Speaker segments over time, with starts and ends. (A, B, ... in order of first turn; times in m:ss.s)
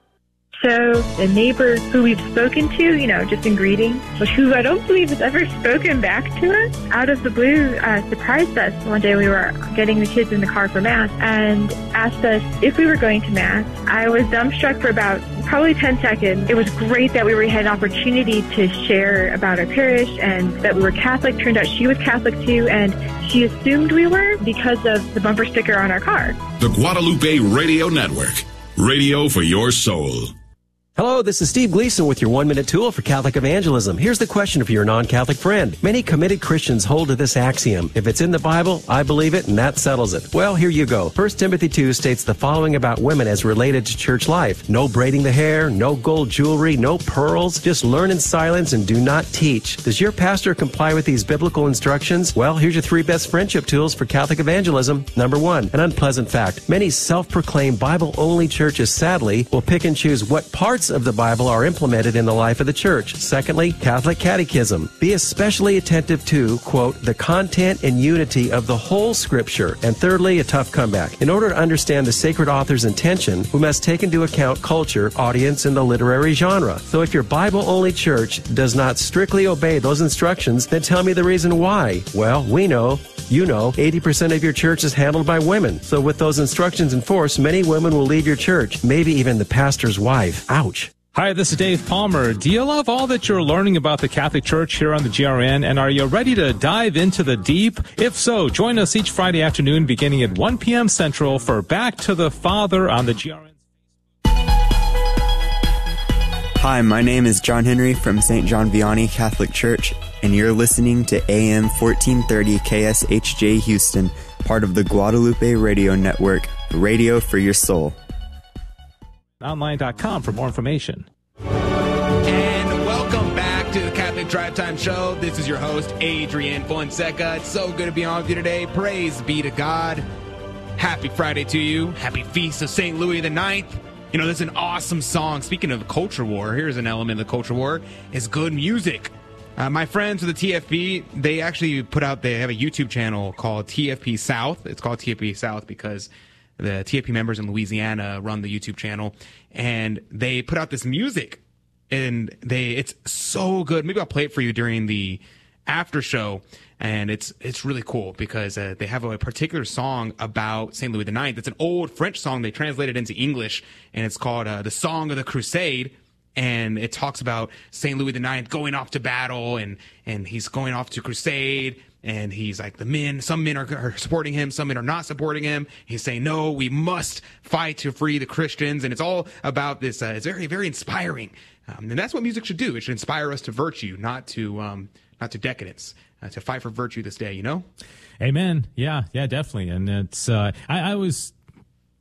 0:00.6-0:26.4 A
0:26.6-0:30.3 B
0:31.0-1:30.9 C
1:31.1-1:43.5 D
1:46.6-1:57.9 E
1:59.4-2:01.1 D
2:02.2-2:10.0 F
2:10.8-3:07.7 F
3:08.2-3:11.3 D